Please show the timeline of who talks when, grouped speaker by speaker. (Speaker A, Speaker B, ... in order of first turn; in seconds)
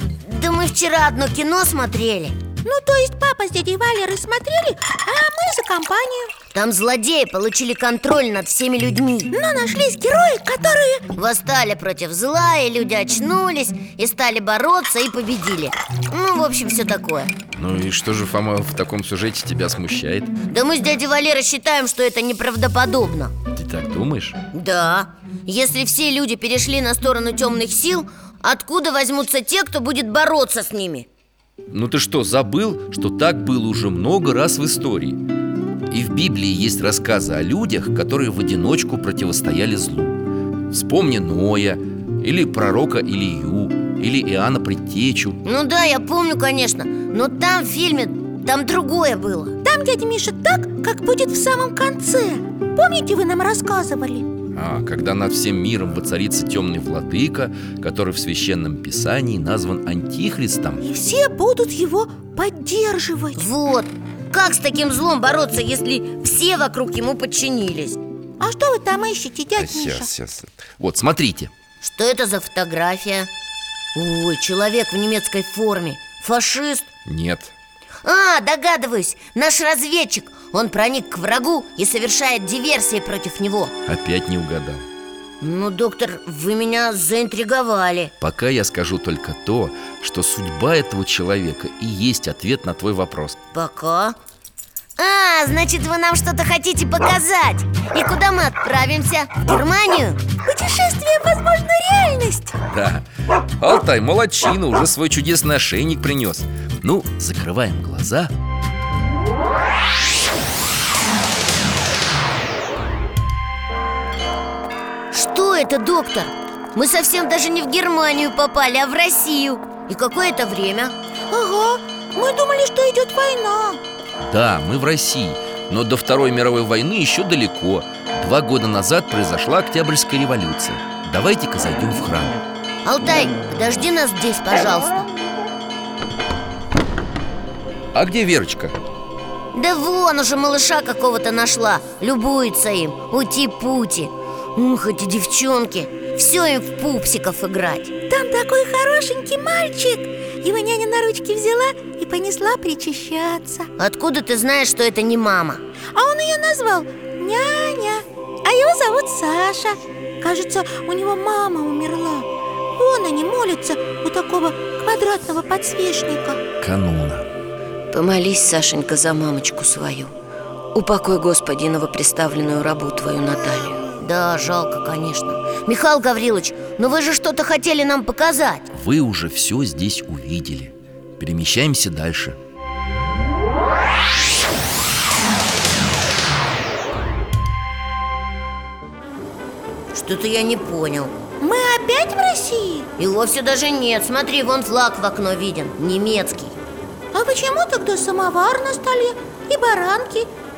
Speaker A: 0.2-2.4, 6.5-9.3, 11.2-17.3, 20.5-23.4, 24.5-31.1, 45.4-49.6, 63.4-68.0, 71.8-73.3, 74.0-76.9, 78.0-83.7, 85.4-88.1, 93.5-94.2, 95.0-100.2, 115.1-121.0, 132.8-135.1, 139.5-147.9, 153.8-155.6, 167.9-170.1, 170.7-178.7, 189.9-191.1, 193.0-196.6
Speaker B: 2.6-6.3, 9.3-11.1, 49.6-54.3, 60.8-63.5, 68.4-70.1, 100.4-102.6, 121.3-123.8, 148.1-153.7, 155.9-166.4, 191.4-192.9, 197.1-200.3
Speaker C: 17.6-20.3, 23.5-24.4, 31.7-35.2, 35.9-45.4, 54.5-60.8, 69.6-71.5, 77.1-77.5, 83.9-84.8, 88.2-93.4, 102.7-103.1, 103.6-108.3, 124.2-132.3, 137.9-138.8, 166.6-167.3, 178.7-182.4